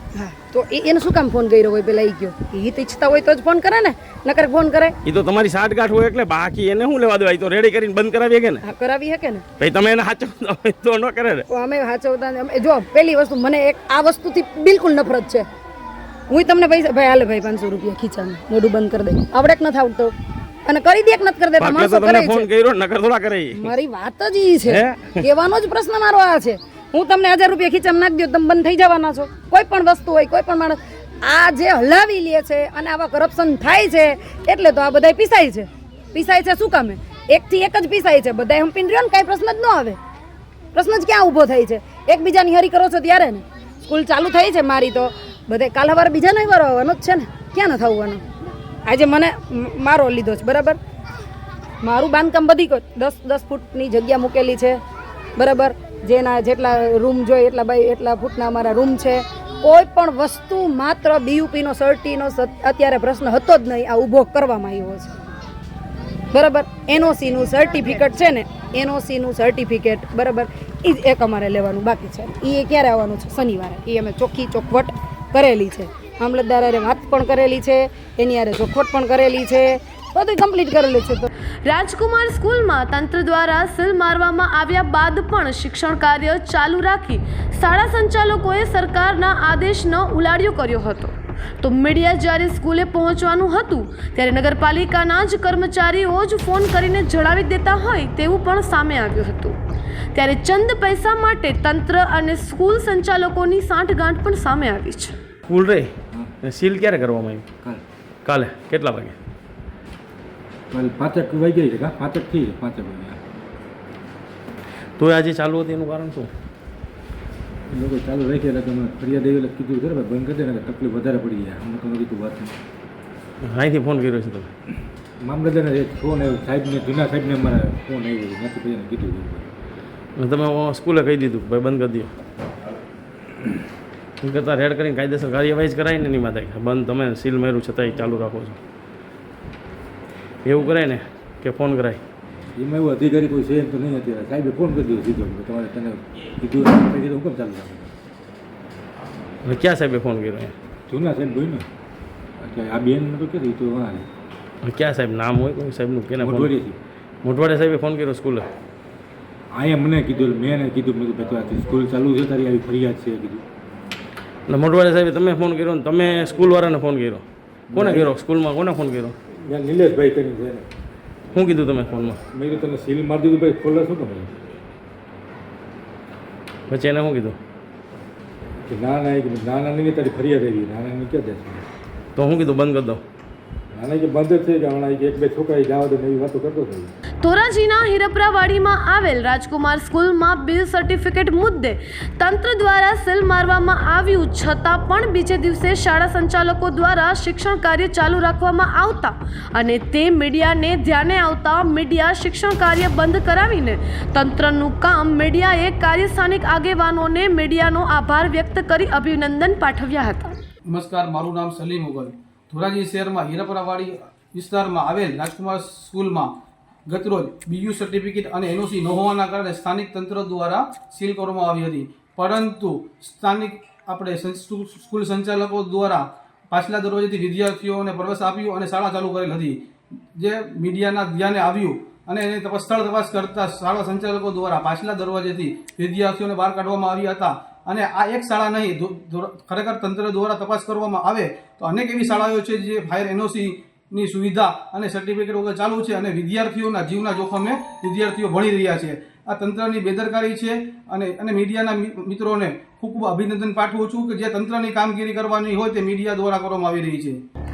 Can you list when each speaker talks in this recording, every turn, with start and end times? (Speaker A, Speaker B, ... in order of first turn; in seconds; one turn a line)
Speaker A: 0.1-5.0
Speaker B: 5.0-8.6
Speaker A: 8.6-9.4
Speaker B: 9.6-11.4
Speaker A: 11.5-15.4
Speaker A: 16.3-20.1
Speaker A: 20.6-22.5
Speaker B: 21.6-23.7
Speaker A: 23.5-40.0
Speaker B: 24.6-25.2
Speaker A: 40.7-48.2
Speaker A: 48.9-50.8
Speaker A: 51.8-54.8
Speaker A: 55.4-65.1
Speaker A: 66.3-81.3
Speaker C: 81.6-99.5
Speaker C: 100.1-105.2
Speaker B: 105.5-105.9
Speaker B: 106.4-107.4
Speaker B: 108.2-109.2
Speaker D: 110.7-113.2
Speaker B: 115.0-116.3
Speaker D: 117.7-122.6
Speaker B: 123.5-124.5
Speaker D: 125.2-129.5
Speaker B: 130.2-132.1
Speaker B: 134.2-138.6
Speaker B: 140.4-142.0
Speaker D: 142.6-147.9
Speaker B: 149.4-150.5
Speaker D: 150.9-151.7
Speaker D: 152.4-154.1
Speaker B: 154.6-156.5
Speaker D: 156.2-156.8
Speaker B: 157.2-158.5
Speaker D: 159.5-163.4
Speaker B: 164.5-169.1
Speaker D: 167.7-168.1
Speaker D: 169.4-170.7
Speaker B: 171.3-172.2
Speaker D: 172.2-174.3
Speaker B: 176.7-177.4
Speaker D: 178.7-181.7
Speaker B: 182.2-183.0
Speaker D: 183.7-186.9
Speaker C: 187.2-210.3
Speaker E: 210.7-216.3
Speaker E: 216.8-229.6
Speaker E: 230.1-257.2